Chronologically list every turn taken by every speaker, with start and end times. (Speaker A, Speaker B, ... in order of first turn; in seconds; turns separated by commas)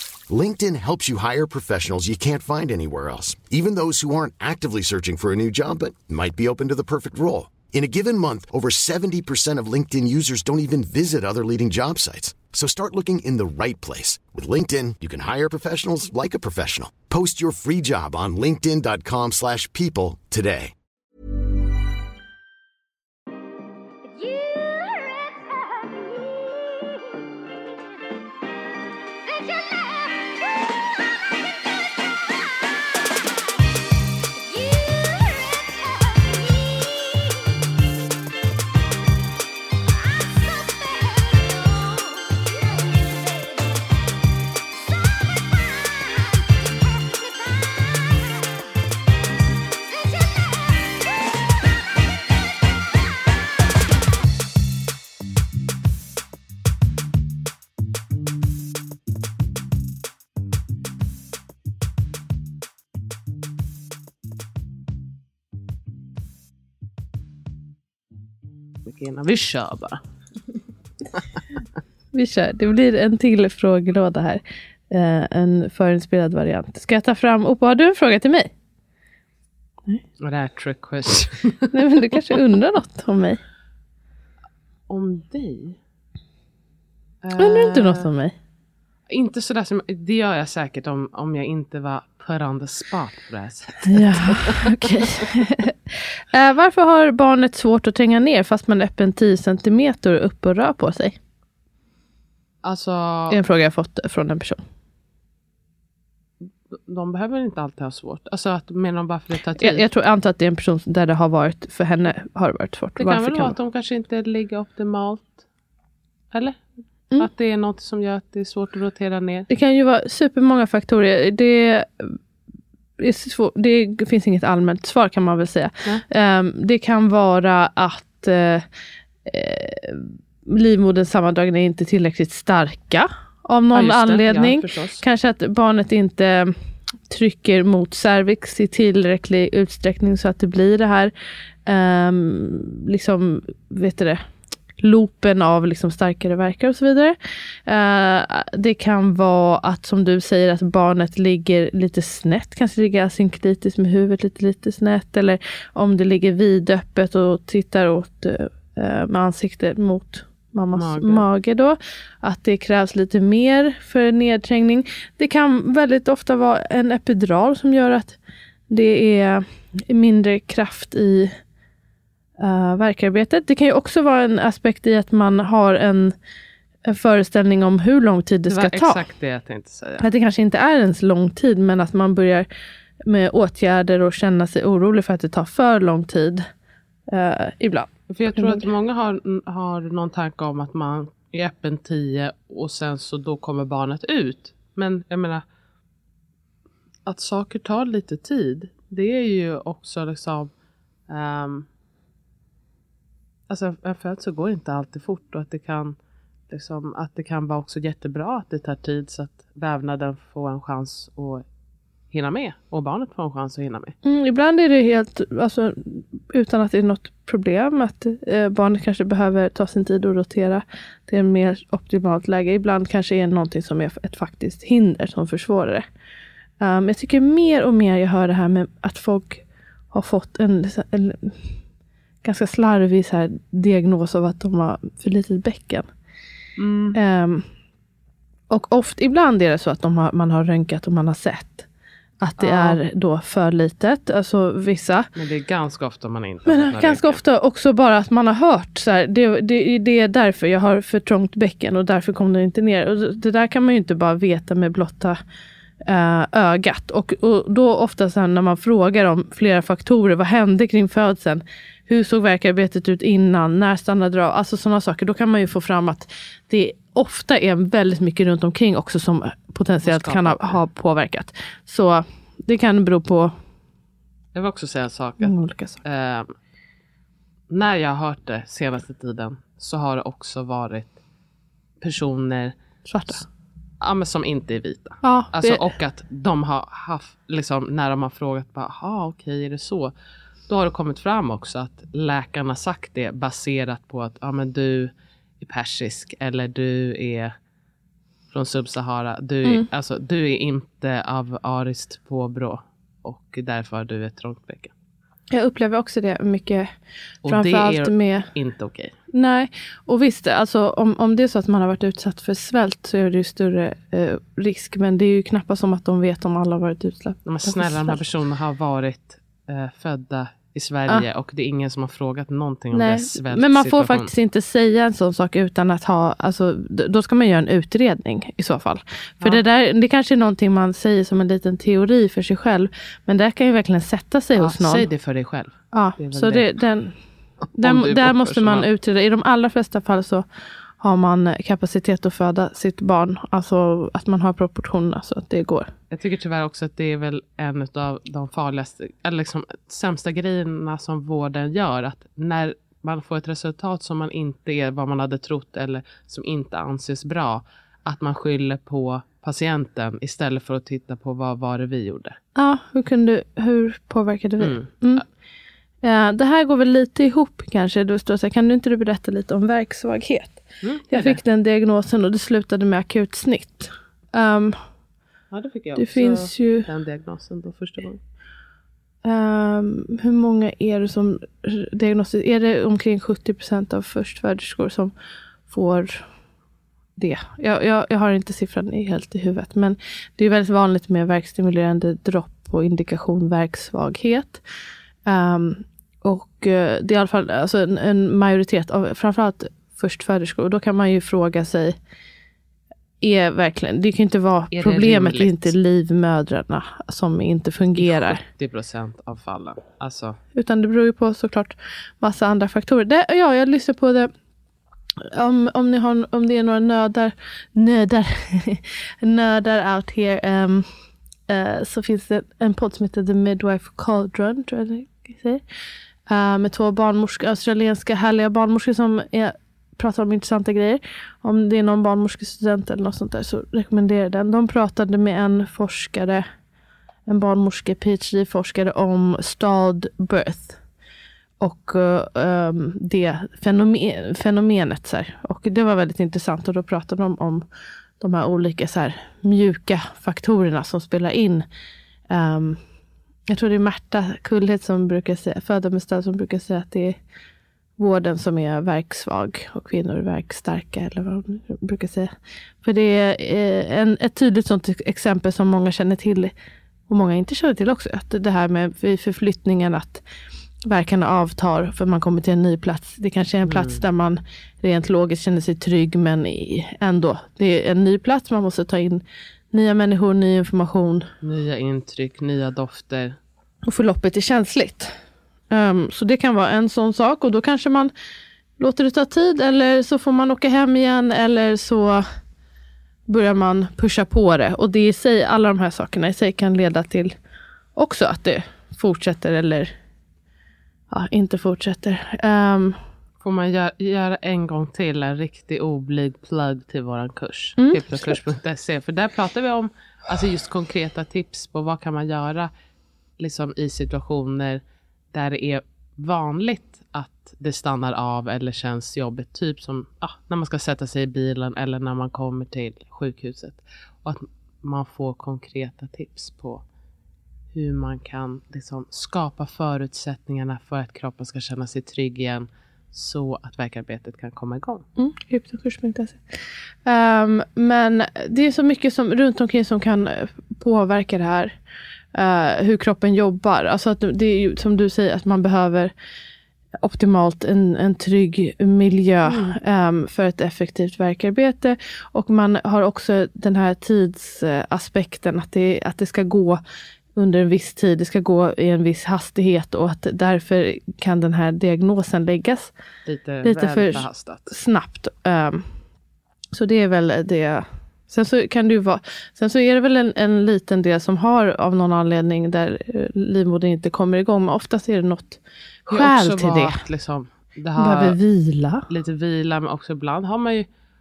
Speaker A: 0.3-20.7, Speaker B: 68.8-70.0, Speaker C: 72.1-78.5, Speaker B: 80.2-81.8, Speaker C: 81.7-83.4, Speaker B: 84.9-85.8, Speaker B: 87.2-88.1, Speaker C: 87.4-88.3, Speaker B: 89.1-95.2, Speaker C: 93.9-101.2, Speaker B: 102.6-103.4, Speaker C: 103.3-104.6, Speaker B: 106.4-109.8, Speaker C: 109.6-113.5, Speaker B: 113.0-115.4, Speaker B: 116.3-116.6, Speaker B: 117.2-119.5, Speaker C: 119.5-122.2, Speaker C: 123.0-128.6, Speaker C: 129.2-136.6, Speaker B: 133.7-135.0, Speaker C: 137.1-141.1, Speaker C: 141.7-144.2, Speaker C: 144.8-168.2, Speaker B: 160.7-161.2, Speaker C: 168.7-171.4, Speaker C: 172.4-176.1, Speaker C: 176.8-179.0, Speaker B: 178.5-180.1, Speaker C: 180.0-182.5, Speaker C: 183.1-186.4, Speaker C: 187.1-188.7, Speaker B: 188.1-195.4, Speaker B: 197.0-200.5, Speaker B: 201.1-201.7, Speaker B: 203.5-206.0, Speaker B: 206.5-211.4, Speaker B: 212.1-213.9, Speaker C: 214.0-225.8, Speaker C: 226.6-231.5, Speaker C: 232.2-235.9, Speaker B: 236.6-237.0, Speaker C: 236.9-237.4, Speaker C: 238.5-241.7, Speaker C: 242.2-245.1, Speaker B: 242.4-242.8, Speaker B: 245.1-247.2, Speaker C: 246.4-255.2, Speaker C: 255.8-273.3, Speaker B: 269.8-270.6, Speaker B: 274.3-276.3, Speaker C: 275.2-275.8, Speaker B: 277.5-280.9, Speaker B: 281.8-282.6, Speaker C: 282.9-283.2, Speaker B: 283.8-289.9, Speaker C: 285.0-285.7, Speaker B: 290.5-297.3, Speaker B: 298.3-304.7, Speaker C: 305.3-306.7, Speaker B: 307.2-308.9, Speaker C: 307.2-308.3, Speaker C: 309.1-318.0, Speaker B: 317.2-324.1, Speaker C: 322.7-334.9, Speaker B: 334.4-336.5, Speaker C: 335.7-336.9, Speaker C: 337.6-340.2, Speaker B: 337.6-338.7, Speaker C: 340.8-345.7, Speaker B: 345.9-362.2, Speaker C: 362.3-365.0, Speaker B: 364.4-365.0, Speaker C: 365.8-374.7, Speaker B: 370.6-371.2, Speaker B: 375.3-378.0, Speaker C: 375.8-376.7, Speaker C: 379.0-384.9, Speaker C: 385.5-386.1, Speaker C: 387.0-394.4, Speaker C: 395.1-401.8, Speaker C: 403.0-408.2, Speaker B: 404.5-405.5, Speaker B: 407.8-410.2, Speaker C: 410.3-414.1, Speaker C: 415.0-420.7, Speaker C: 421.3-425.4, Speaker C: 426.1-436.3, Speaker C: 437.1-440.6, Speaker C: 441.4-447.4, Speaker C: 448.0-451.4, Speaker C: 452.1-452.6, Speaker C: 453.3-457.0, Speaker C: 457.8-466.3, Speaker C: 466.9-470.0, Speaker C: 470.6-481.1, Speaker B: 473.4-473.8, Speaker B: 481.2-483.2, Speaker C: 483.6-485.0, Speaker C: 485.5-487.9, Speaker C: 488.6-492.1, Speaker C: 493.1-497.1, Speaker C: 497.7-499.7, Speaker C: 500.9-502.8, Speaker B: 503.2-512.5, Speaker C: 507.6-508.2, Speaker B: 513.2-514.6, Speaker B: 515.1-526.6, Speaker B: 527.5-534.9, Speaker C: 535.0-536.2, Speaker C: 536.8-541.5, Speaker C: 542.1-545.9, Speaker C: 546.8-556.6, Speaker B: 549.2-549.6, Speaker C: 557.1-562.7, Speaker B: 563.0-564.5, Speaker C: 563.4-565.7, Speaker C: 566.5-576.8, Speaker B: 575.9-578.2, Speaker C: 577.8-578.9, Speaker B: 578.9-580.7